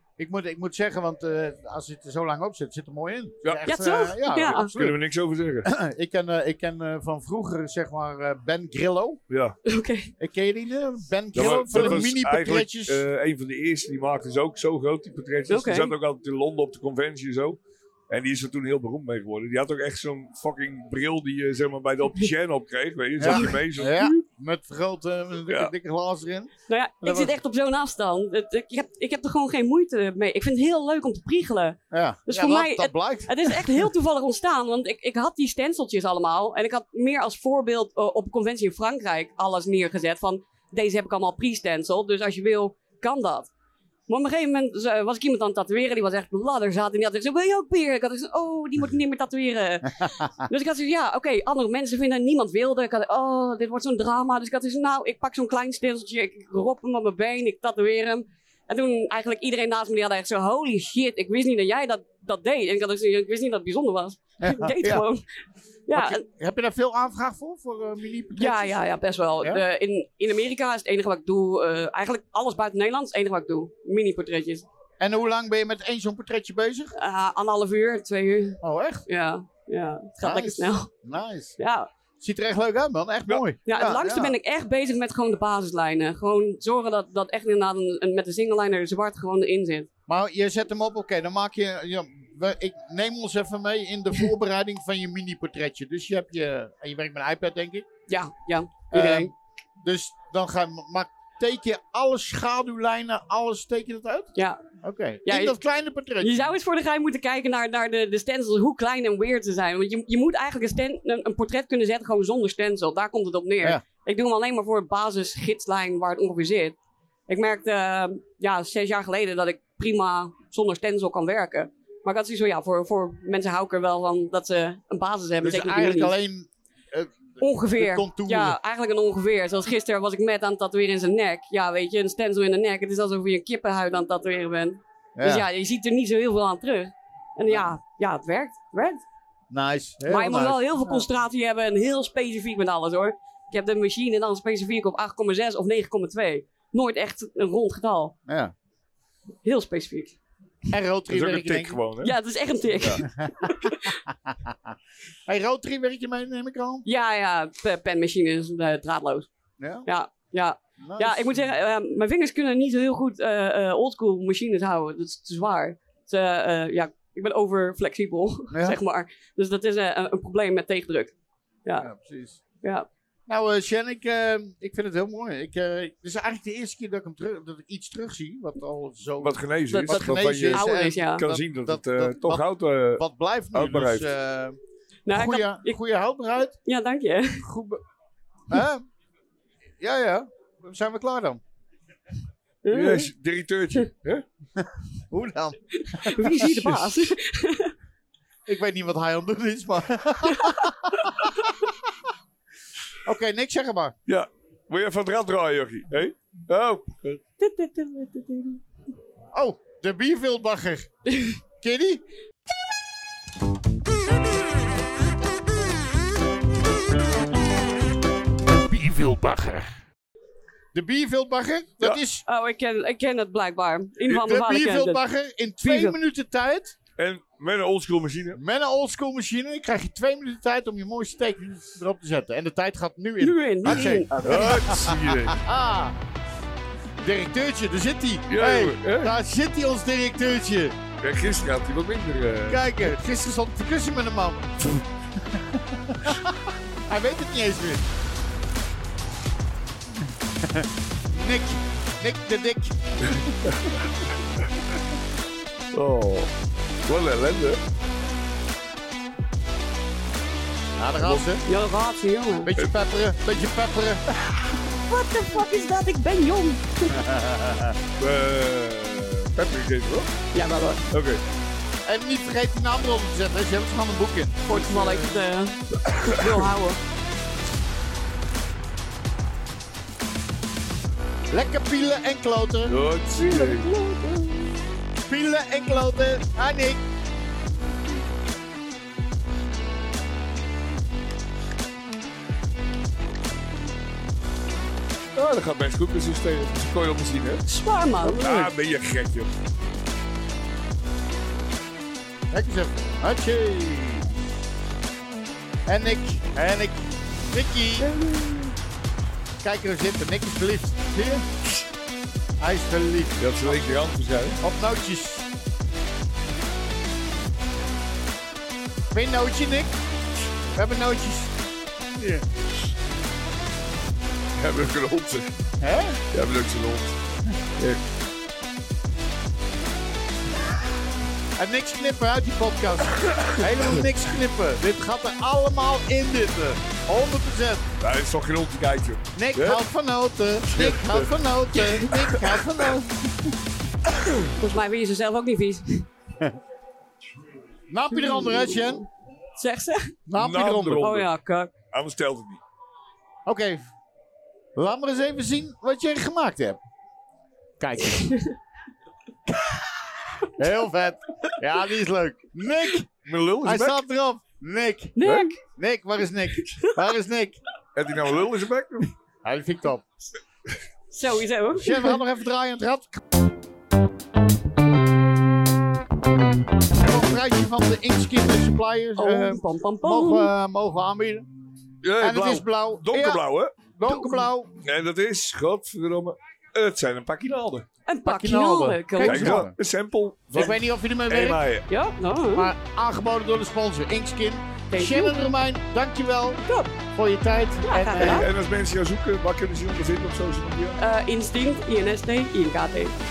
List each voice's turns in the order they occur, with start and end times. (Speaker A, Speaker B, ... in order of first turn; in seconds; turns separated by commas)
Speaker A: 0.2-5.0, Speaker B: 3.6-4.7, Speaker C: 4.4-5.7, Speaker A: 5.6-9.2, Speaker C: 9.3-9.6, Speaker B: 9.7-10.1, Speaker A: 10.2-13.0, Speaker C: 11.3-17.6, Speaker B: 15.5-15.9, Speaker C: 18.1-23.9, Speaker A: 23.2-26.5, Speaker B: 23.3-24.1, Speaker C: 25.5-25.7, Speaker B: 26.7-43.5, Speaker A: 27.0-27.4, Speaker A: 31.9-33.7, Speaker B: 44.1-65.2, Speaker A: 64.4-65.0, Speaker B: 65.9-66.2, Speaker A: 65.9-68.8, Speaker B: 68.3-74.7, Speaker A: 75.0-76.9, Speaker B: 77.0-80.9, Speaker A: 78.6-79.0, Speaker A: 80.2-81.6, Speaker B: 81.6-81.9, Speaker A: 82.2-84.3, Speaker B: 83.6-89.9, Speaker A: 90.1-97.8, Speaker B: 98.1-99.3, Speaker A: 98.9-106.4, Speaker B: 104.3-104.6, Speaker B: 105.2-105.6, Speaker B: 106.2-116.8, Speaker B: 117.3-126.1, Speaker A: 125.4-128.6, Speaker B: 127.4-139.0, Speaker A: 135.2-135.4, Speaker A: 139.5-141.1, Speaker B: 140.0-148.1, Speaker A: 148.3-148.5, Speaker B: 149.4-150.2, Speaker A: 150.7-151.8, Speaker C: 151.1-152.1, Speaker B: 152.0-154.0, Speaker C: 152.8-153.0, Speaker A: 153.0-154.7, Speaker A: 155.3-156.8, Speaker B: 156.8-159.3, Speaker A: 159.6-159.9, Speaker B: 159.8-171.1, Speaker A: 160.8-161.4, Speaker A: 168.5-168.8, Speaker A: 171.8-172.4, Speaker B: 172.6-172.9, Speaker A: 173.3-184.6, Speaker C: 179.2-184.1, Speaker B: 179.7-181.2, Speaker B: 185.1-185.8, Speaker A: 185.1-186.6, Speaker B: 186.6-187.4, Speaker A: 187.4-187.8, Speaker A: 188.5-188.8, Speaker A: 189.8-191.4, Speaker B: 192.6-193.1, Speaker C: 192.7-194.2, Speaker A: 194.6-197.1, Speaker B: 195.7-197.7, Speaker A: 198.4-201.7, Speaker B: 200.2-200.7, Speaker B: 201.2-201.5, Speaker A: 203.0-203.9, Speaker C: 204.1-207.2, Speaker B: 207.4-208.6, Speaker A: 209.3-210.9, Speaker A: 211.6-212.0, Speaker A: 218.7-219.7, Speaker A: 220.7-222.2, Speaker B: 222.2-225.0, Speaker A: 224.1-226.7, Speaker B: 225.6-226.0, Speaker C: 227.0-228.4, Speaker A: 228.3-235.9, Speaker B: 233.2-234.6, Speaker C: 233.7-235.4, Speaker A: 237.0-240.8, Speaker C: 238.3-239.1, Speaker C: 241.0-242.9, Speaker A: 242.5-247.8, Speaker A: 250.4-253.2, Speaker C: 253.1-254.1, Speaker C: 255.7-256.3, Speaker C: 256.9-257.6, Speaker A: 260.8-261.4, Speaker C: 261.0-261.2, Speaker B: 261.4-262.5, Speaker A: 262.4-264.0, Speaker B: 264.9-266.9, Speaker A: 266.9-267.8, Speaker C: 268.0-270.1, Speaker B: 270.3-270.8, Speaker C: 270.9-271.2, Speaker A: 271.9-275.2, Speaker B: 274.5-276.8, Speaker C: 275.9-276.4, Speaker A: 281.3-282.8, Speaker C: 282.6-283.7, Speaker B: 283.2-284.4, Speaker A: 285.1-286.8, Speaker C: 295.1-297.4, Speaker B: 297.4-298.3, Speaker C: 298.0-299.3, Speaker A: 298.2-298.5, Speaker A: 302.3-304.1, Speaker A: 305.6-307.9, Speaker B: 307.8-308.5, Speaker A: 309.4-311.2, Speaker A: 312.4-313.6, Speaker C: 313.2-314.4, Speaker A: 314.4-315.3, Speaker A: 318.9-319.7, Speaker A: 320.5-321.3, Speaker A: 322.0-322.2, Speaker C: 324.4-325.3, Speaker A: 325.6-326.0, Speaker C: 326.1-326.9, Speaker A: 331.4-337.6, Speaker C: 333.0-333.4, Speaker C: 337.8-339.6, Speaker A: 339.1-343.3, Speaker C: 340.4-341.2, Speaker C: 341.9-342.4, Speaker B: 344.4-345.9, Speaker A: 347.7-348.8, Speaker B: 347.9-349.9, Speaker A: 350.1-350.9, Speaker C: 350.1-351.1, Speaker B: 350.8-351.5, Speaker C: 351.7-352.4, Speaker A: 353.2-353.6, Speaker A: 354.6-356.6, Speaker A: 357.6-358.1, Speaker B: 357.9-358.3, Speaker A: 359.3-359.6, Speaker A: 360.3-362.9, Speaker C: 363.1-363.8, Speaker A: 363.4-367.4, Speaker B: 365.0-365.4, Speaker C: 365.0-365.3, Speaker B: 366.5-366.7, Speaker C: 367.7-368.9, Speaker A: 369.2-369.8, Speaker B: 370.9-372.0, Speaker A: 371.6-373.0, Speaker A: 376.7-381.2, Speaker B: 378.9-380.3, Speaker C: 381.8-383.6, Speaker A: 382.0-384.5, Speaker B: 383.9-384.3, Speaker C: 384.6-387.6, Speaker B: 387.9-389.4, Speaker A: 388.1-389.5, Speaker C: 389.0-391.6, Speaker A: 390.3-391.4, Speaker B: 391.7-392.5, Speaker A: 392.3-398.3, Speaker B: 394.7-395.2, Speaker B: 397.6-398.3, Speaker C: 398.0-400.8, Speaker B: 400.8-402.9